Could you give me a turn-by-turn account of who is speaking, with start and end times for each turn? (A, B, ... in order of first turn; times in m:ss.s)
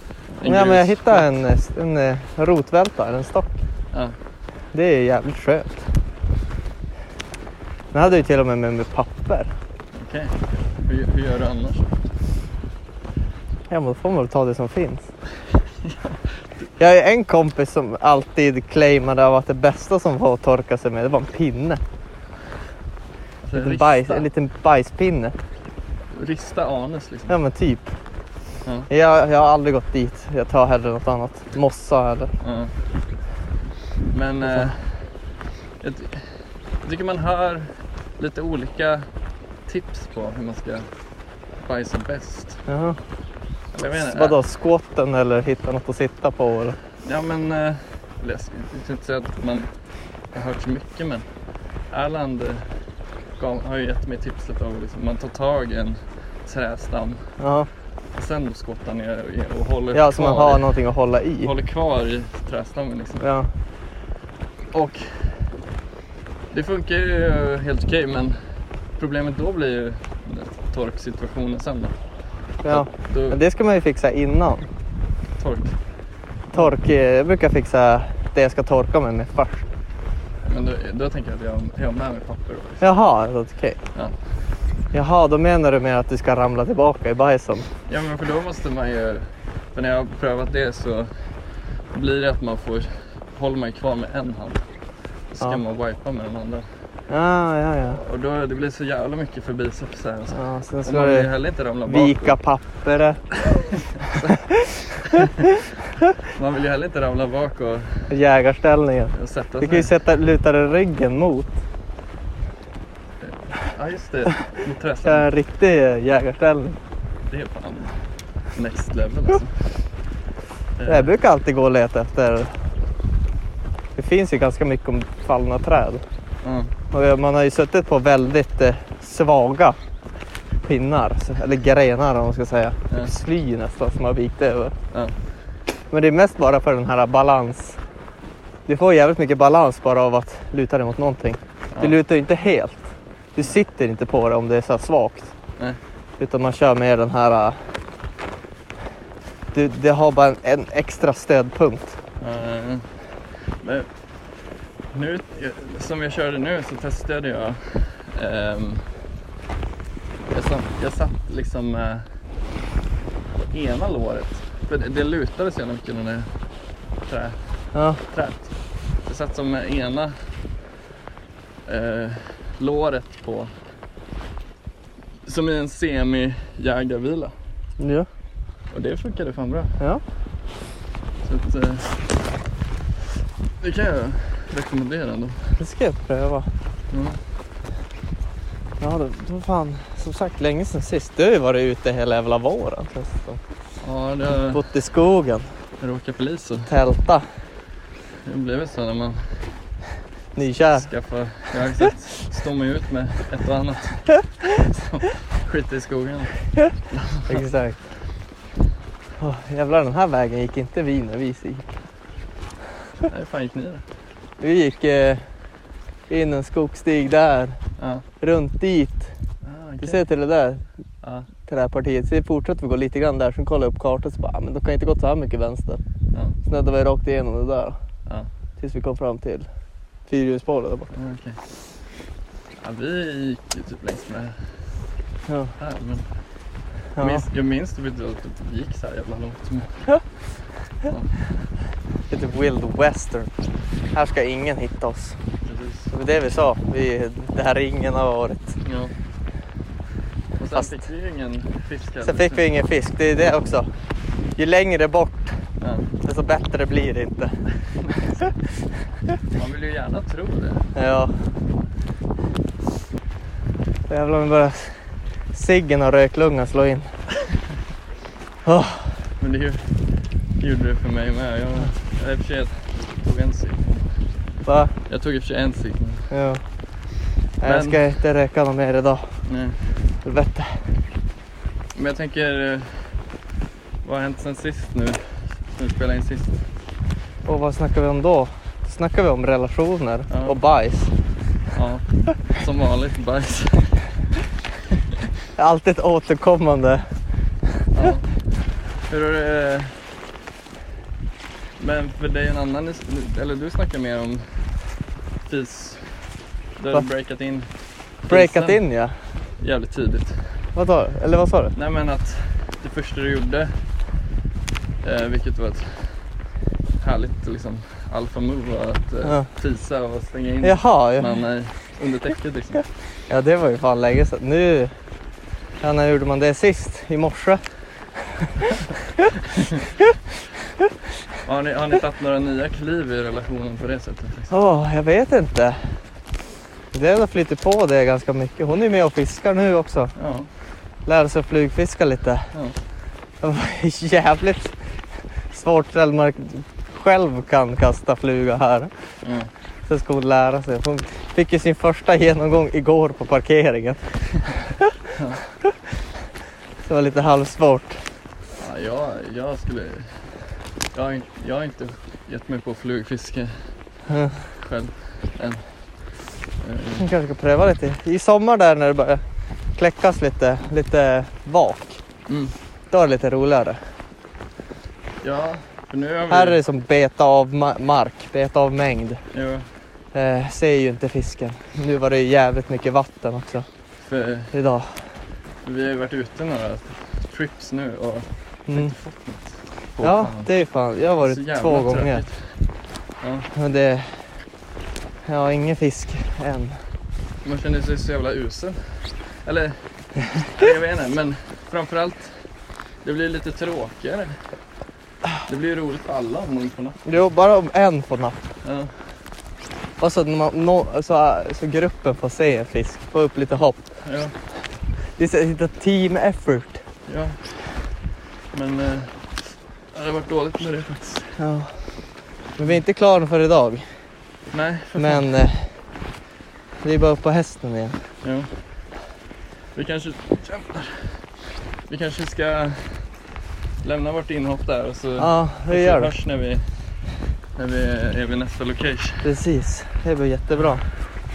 0:00.3-0:01.3 A
0:00.4-0:03.6 B
0:04.7-0:06.0 B
0:07.9-0:09.5 B
0:09.9-0:11.9 A
0:13.7-0:15.1 B
0:15.8-0:16.6 A
0:16.8-0:21.8 B
0:23.4-0:24.3 A
0:23.5-0:25.4 B
0:26.1-0:27.4 A
0:27.3-0:28.0 B
0:28.6-0:28.9 A
0:28.9-0:32.3 B
0:32.4-0:32.7 A
0:34.1-0:42.7 A
0:34.4-0:34.7 B
0:42.7-0:43.0 B
0:43.7-0:44.4 A
0:44.0-0:46.8 B
0:47.0-0:57.5 A
0:57.4-0:57.7 B
0:58.1-1:00.8 A
0:59.9-1:01.5 B
1:01.4-1:03.3 A
1:03.2-1:03.5 B
1:04.7-1:05.6 A
1:06.5-1:13.4 A
1:12.6-1:14.6 B
1:15.4-1:15.9 A
1:16.5-1:19.7 B
1:20.5-1:22.9 A
1:22.8-1:23.8 B
1:23.9-1:24.3 A
1:24.9-1:27.7 B
1:27.9-1:36.9 A
1:37.1-1:38.0 B
1:37.9-1:42.4 A
1:40.3-1:43.3 B
1:46.3-1:48.1 A
1:48.1-1:51.6 B
1:49.1-1:49.9 A
1:53.2-1:55.3 A
1:55.0-1:56.8 B
1:57.3-2:00.0 A
2:00.8-2:01.1 A
2:00.9-2:02.5 B
2:04.0-2:06.0 B
2:06.4-2:06.7 A
2:06.9-2:09.8 B
2:10.6-2:14.8 B
2:14.9-2:15.2 A
2:15.9-2:17.8 B
2:18.7-2:25.3 B
2:21.7-2:22.0 A
2:26.2-2:27.6 B
2:29.5-2:32.0 B
2:32.2-2:34.4 A
2:34.9-2:38.9 A
2:40.3-2:42.2 A
2:43.5-2:50.5 A
2:47.7-2:48.0 B
2:51.7-2:53.7 A
2:55.2-2:57.4 A
2:57.8-2:58.1 B
2:58.7-2:59.8 A
3:01.2-3:02.3 A
3:03.6-3:05.6 A
3:05.6-3:06.5 B
3:06.9-3:07.2 A
3:08.8-3:13.4 B
3:13.8-3:14.6 A
3:14.5-3:15.5 B
3:15.8-3:16.7 A
3:16.7-3:17.3 B
3:18.2-3:19.6 A
3:20.4-3:21.2 B
3:20.7-3:27.4 A
3:27.3-3:27.9 B
3:29.2-3:31.8 B
3:33.0-3:33.9 A
3:34.4-3:35.4 B
3:36.1-3:39.1 B
3:37.8-3:38.1 A
3:39.4-3:40.1 A
3:39.8-3:40.6 B
3:41.0-3:41.3 A
3:41.4-3:45.8 B
3:46.5-3:47.8 B
3:48.6-3:49.5 B
3:50.1-3:50.9 B
3:50.9-3:51.4 A
3:52.6-3:54.7 A
3:55.3-3:55.5 B
3:55.6-3:56.2 A
3:57.0-3:57.2 B
3:57.0-4:01.5 A
4:02.1-4:03.3 B
4:03.9-4:05.2 B
4:05.4-4:05.9 A
4:05.9-4:08.6 B
4:08.6-4:08.9 A
4:10.4-4:12.5 A
4:12.0-4:13.7 B
4:14.3-4:15.4 B
4:15.6-4:15.9 A
4:16.0-4:17.4 B
4:17.9-4:18.3 A
4:19.3-4:20.7 A
4:20.8-4:21.2 B
4:23.9-4:26.9 B
4:28.4-4:29.0 B
4:29.2-4:34.1 A
4:34.4-4:34.7 B
4:34.9-4:36.1 A
4:36.1-4:39.3 B
4:37.4-4:37.8 A
4:39.2-4:39.9 A
4:40.0-4:40.6 B
4:41.7-4:43.1 A
4:43.8-4:46.5 A
4:47.2-4:50.9 B
4:50.1-4:50.4 A
4:51.5-4:54.0 A
4:55.4-4:57.0 B
4:57.7-4:59.9 A
5:01.6-5:10.5 A
5:08.1-5:09.0 B
5:10.6-5:11.6 B
5:11.5-5:13.6 A
5:14.8-5:22.7 A
5:19.0-5:19.3 B
5:20.4-5:21.1 B
5:23.1-5:24.7 B
5:25.6-5:28.5 B
5:31.2-5:34.4 A
5:34.3-5:35.8 B
5:36.7-5:40.0 B
5:40.0-5:40.3 A
5:40.8-5:42.3 B
5:43.2-5:44.6 B
5:45.3-5:48.9 B
5:49.0-5:49.3 A
5:49.7-5:54.4 B
5:54.9-5:55.2 A
5:56.6-5:57.8 B
5:58.4-6:03.8 A
6:03.9-6:04.2 B
6:04.3-6:06.9 A
6:06.8-6:11.8 B
6:12.1-6:12.3 A
6:12.7-6:13.6 B
6:15.0-6:16.4 A
6:16.1-6:19.0 B
6:19.1-6:19.5 A
6:19.9-6:23.5 B
6:23.8-6:24.3 A
6:24.3-6:24.9 B
6:25.4-6:30.4 A
6:28.5-6:28.7 B
6:29.8-6:32.1 B
6:31.0-6:33.3 A
6:33.3-6:34.2 B
6:35.0-6:36.6 B
6:37.2-6:44.4 A
6:45.3-6:46.8 A
6:46.8-6:48.3 B
6:48.4-6:48.7 A
6:49.8-6:53.6 B
6:53.8-6:54.2 A
6:54.9-6:56.6 B
6:56.9-6:57.8 A
6:58.3-7:01.2 A
7:01.2-7:03.8 B
7:04.3-7:05.0 A
7:04.8-7:05.6 B
7:06.6-7:07.8 B
7:08.0-7:08.8 A
7:09.5-7:13.0 A
7:13.6-7:19.1 A
7:15.0-7:15.9 B
7:19.0-7:20.7 B